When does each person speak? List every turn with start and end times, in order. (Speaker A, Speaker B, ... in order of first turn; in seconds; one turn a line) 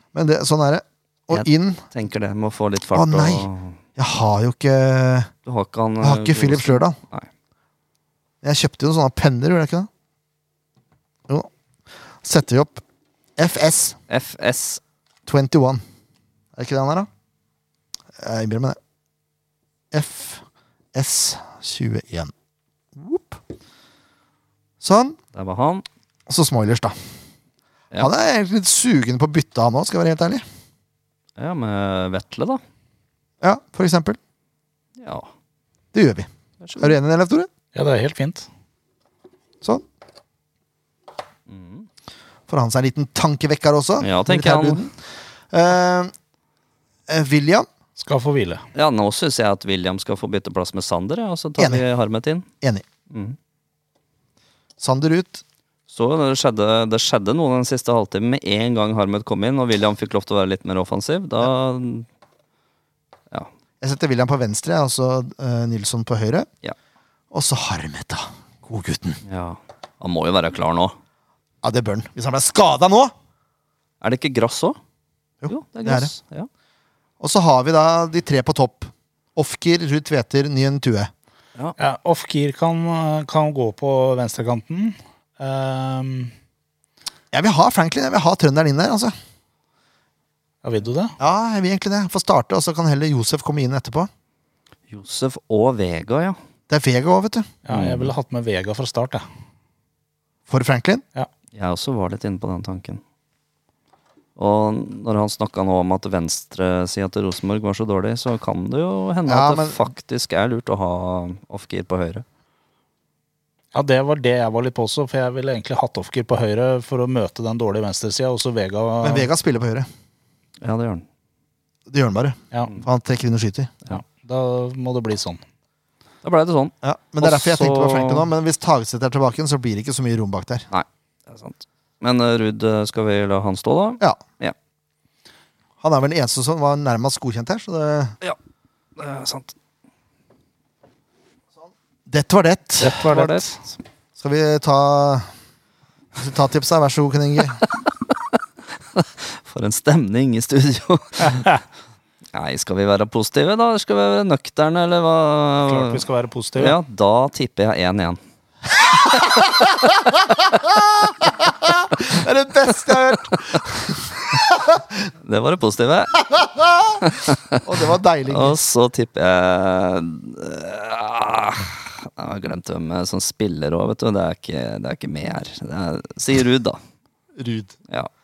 Speaker A: 0.1-1.8
Speaker B: 1.3-3.8
Speaker A: 2.9-5.3
Speaker B: 5.4-7.3
Speaker A: 6.0-7.0
Speaker A: 8.4-9.9
Speaker A: 12.2-12.8
Speaker A: 13.4-14.0
Speaker B: 14.1-14.8
Speaker A: 15.2-15.8
Speaker A: 16.6-17.1
Speaker A: 18.2-18.8
Speaker A: 19.9-20.4
Speaker A: 20.9-22.3
Speaker A: 23.0-23.4
Speaker A: 24.8-25.2
Speaker B: 25.3-25.8
Speaker A: 26.3-27.0
Speaker A: 27.9-30.4
Speaker B: 31.4-32.6
Speaker A: 33.4-34.2
Speaker B: 35.0-35.3
Speaker A: 35.9-37.5
Speaker B: 36.6-36.9
Speaker C: 37.7-38.5
Speaker B: 41.5-41.9
Speaker A: 42.5-44.9
Speaker B: 44.0-44.8
Speaker A: 45.5-46.1
Speaker A: 47.1-47.7
Speaker C: 48.0-48.6
Speaker B: 48.7-52.5
Speaker A: 51.6-51.8
Speaker B: 53.1-53.4
Speaker A: 54.8-55.4
Speaker B: 55.9-62.1
Speaker A: 63.8-66.5
Speaker A: 67.3-69.2
Speaker B: 69.2-71.0
Speaker A: 71.6-73.1
Speaker B: 74.0-74.8
Speaker A: 75.4-76.1
Speaker B: 75.5-76.5
Speaker A: 77.2-81.1
Speaker C: 81.8-86.3
Speaker A: 87.3-89.1
Speaker C: 90.6-91.1
Speaker A: 91.2-94.1
Speaker B: 94.9-96.4
Speaker A: 96.7-97.5
Speaker C: 97.7-99.2
Speaker B: 97.7-98.1
Speaker A: 100.5-101.0
Speaker B: 101.5-103.0
Speaker B: 104.3-112.2
Speaker A: 109.3-109.8
Speaker C: 113.7-119.3
Speaker A: 119.0-119.9
Speaker B: 120.6-121.0
Speaker A: 121.9-123.7
Speaker C: 123.9-125.4
Speaker B: 126.2-128.3
Speaker A: 126.8-130.7
Speaker B: 130.7-134.5
Speaker A: 135.8-138.2
Speaker B: 138.9-139.5
Speaker A: 142.1-143.0
Speaker C: 142.8-143.6
Speaker B: 142.8-143.6
Speaker A: 144.2-145.3
Speaker A: 146.2-147.6
Speaker B: 148.1-148.4
Speaker B: 148.9-151.5
Speaker B: 152.3-156.0
Speaker C: 155.7-156.8
Speaker B: 156.6-158.2
Speaker A: 159.1-164.8
Speaker B: 162.8-163.3
Speaker B: 165.2-166.2
Speaker A: 166.3-167.0
Speaker B: 167.0-167.5
Speaker A: 167.6-168.6
Speaker B: 168.3-176.8
Speaker A: 177.4-177.7